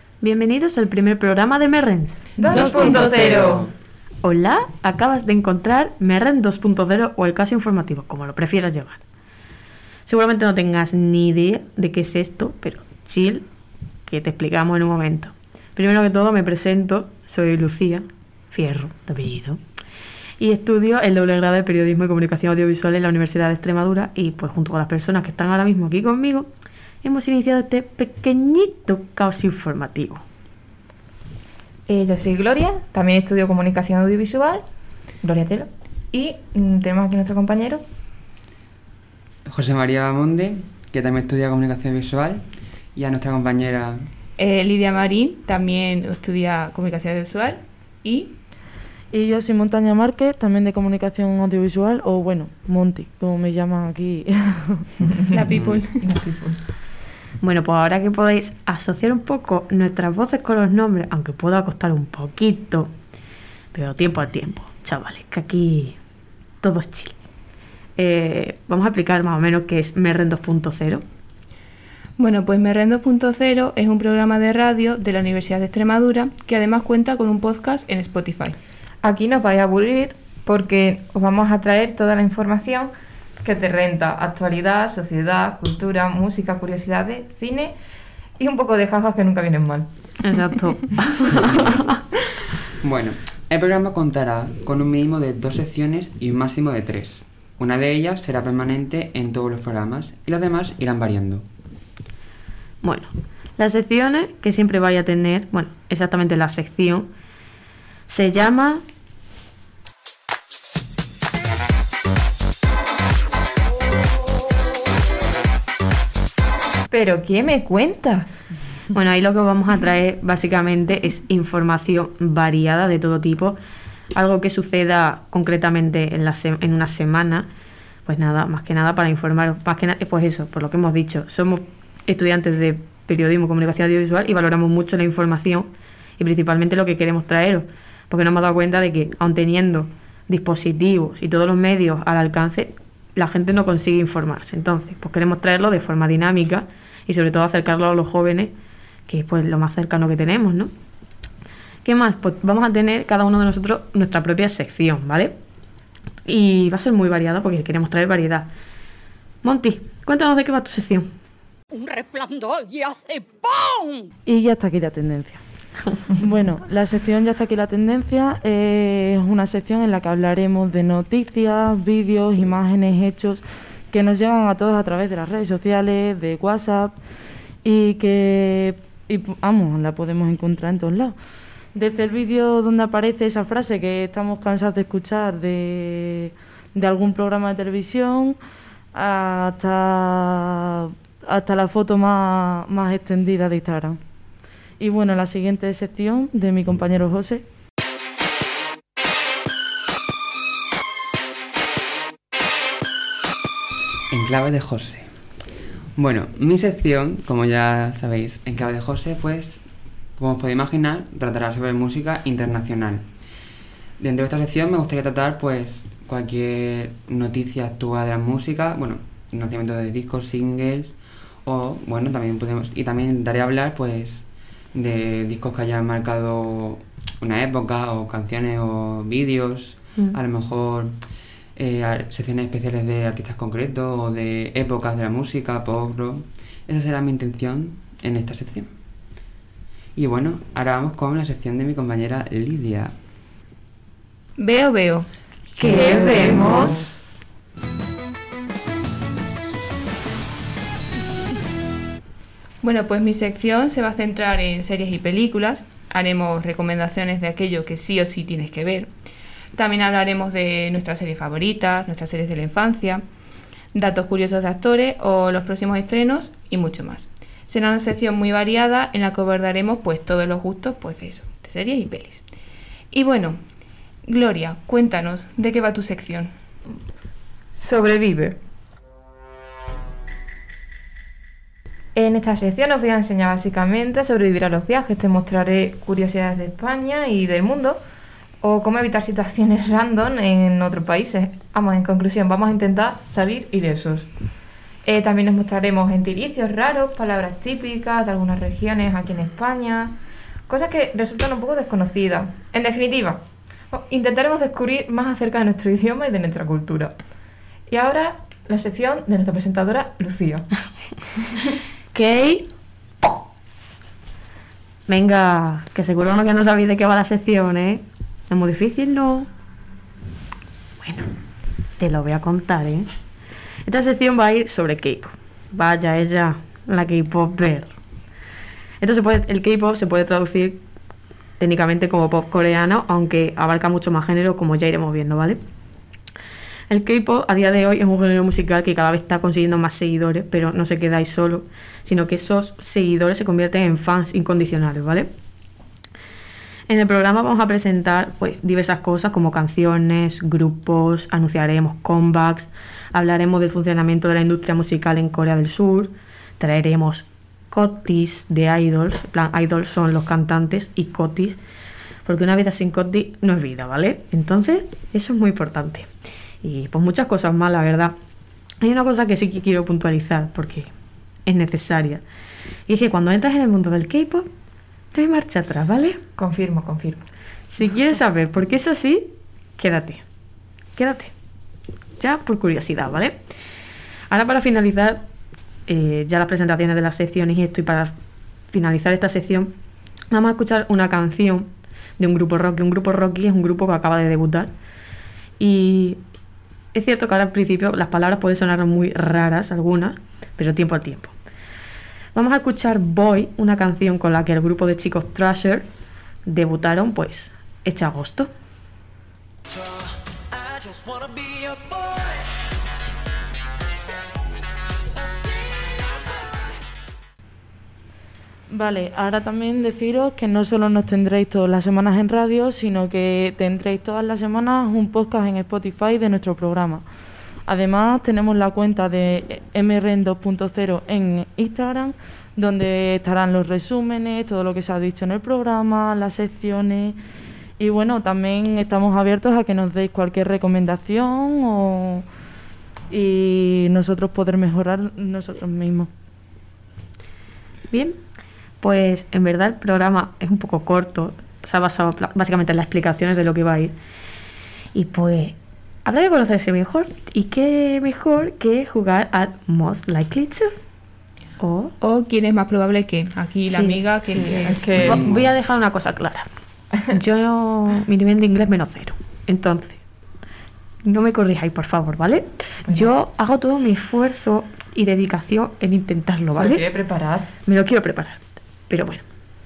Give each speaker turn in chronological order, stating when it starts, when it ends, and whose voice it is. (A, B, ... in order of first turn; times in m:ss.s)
0:00.2-0:03.5 A
0:02.4-0:03.7 B
0:02.5-0:03.7 C
0:04.2-0:09.0 A
0:10.1-0:13.4 A
0:14.1-0:19.6 A
0:20.4-0:26.5 A
0:27.0-0:30.2 A
0:31.9-0:34.6 B
0:35.2-0:37.8 B
0:39.4-0:42.4 C
0:43.0-0:44.0 C
0:44.4-0:48.3 D
0:49.1-0:54.9 E
0:55.3-0:56.0 D
0:55.5-0:55.8 C
0:56.0-0:56.6 B
0:57.4-1:02.9 A
1:03.7-1:06.0 A
1:06.6-1:07.2 A
1:08.0-1:11.0 A
1:12.2-1:18.6 D
1:19.0-1:22.9 B
1:23.4-1:27.7 B
1:28.4-1:29.9 B
1:30.2-1:32.0 A
1:31.3-1:31.8 C
1:32.8-1:41.4 C
1:42.8-1:47.1 A
1:48.1-1:48.8 A
1:56.9-1:58.4 B
1:58.9-2:03.6 A
2:04.1-2:07.5 A
2:08.1-2:28.5 A
2:29.1-2:30.7 A
2:31.8-2:35.4 A
2:36.3-2:38.5 A
2:39.4-2:41.1 A
2:41.7-2:44.1 F
2:44.3-2:45.4 E
2:46.1-2:56.9 E
2:57.6-3:01.2 E
3:01.8-3:08.4 E
3:08.9-3:14.0 E
3:14.8-3:17.4 E
3:24.1-3:25.1 C
3:26.0-3:29.6 C
3:30.2-3:33.0 C
3:34.0-3:50.9 C
3:51.6-3:58.7 C
4:00.0-4:02.9 C
4:04.4-4:05.1 D
4:05.6-4:06.9 A
4:05.6-4:07.0 B
4:05.7-4:06.2 D
4:12.6-4:18.9 D
4:19.6-4:23.0 D
4:23.7-4:32.2 D
4:32.9-4:33.4 D
4:34.0-4:36.3 D
4:37.5-4:38.4 B
4:42.0-4:47.8 B
4:48.4-4:54.1 B
4:54.8-4:59.9 B
5:00.5-5:03.2 B
5:03.7-5:06.9 B
5:07.7-5:10.5 B
5:11.9-5:12.5 A
5:14.9-5:19.3 A
5:20.8-5:21.1 A
5:21.8-5:22.9 A
5:23.6-5:27.7 A
5:28.8-5:30.6 A
5:31.4-5:35.4 A
5:36.7-5:45.1 A
5:46.7-6:01.4 A
6:02.1-6:05.9 A
6:06.4-6:07.9 A
6:08.6-6:10.7 A
6:11.3-6:12.0 A
6:12.7-6:14.3 A
6:14.9-6:16.0 A
6:16.2-6:17.1 B
6:17.5-6:20.0 A
6:20.8-6:21.1 A
6:22.0-6:23.2 A
6:24.1-6:25.0 A
6:25.7-6:27.9 A
6:28.5-6:29.5 A
6:30.1-6:34.5 A
6:35.4-6:36.0 A
6:36.7-6:41.1 A
6:42.2-6:45.7 A
6:46.3-6:48.3 A
6:58.5-7:06.8 E
7:07.5-7:17.0 E
7:17.6-7:22.0 E
7:22.9-7:25.9 E
7:27.7-7:28.0 A
7:28.6-7:33.7 A
7:34.7-7:40.6 A
7:41.4-7:41.7 A
7:41.8-7:44.7 D
7:43.5-7:43.8 A
7:44.1-7:45.2 B
7:44.7-7:45.3 C
7:44.8-7:46.3 A
7:46.9-7:49.8 A
7:50.8-7:56.6 A
7:52.7-7:52.9 B
7:56.3-7:57.3 B
7:57.5-7:59.0 A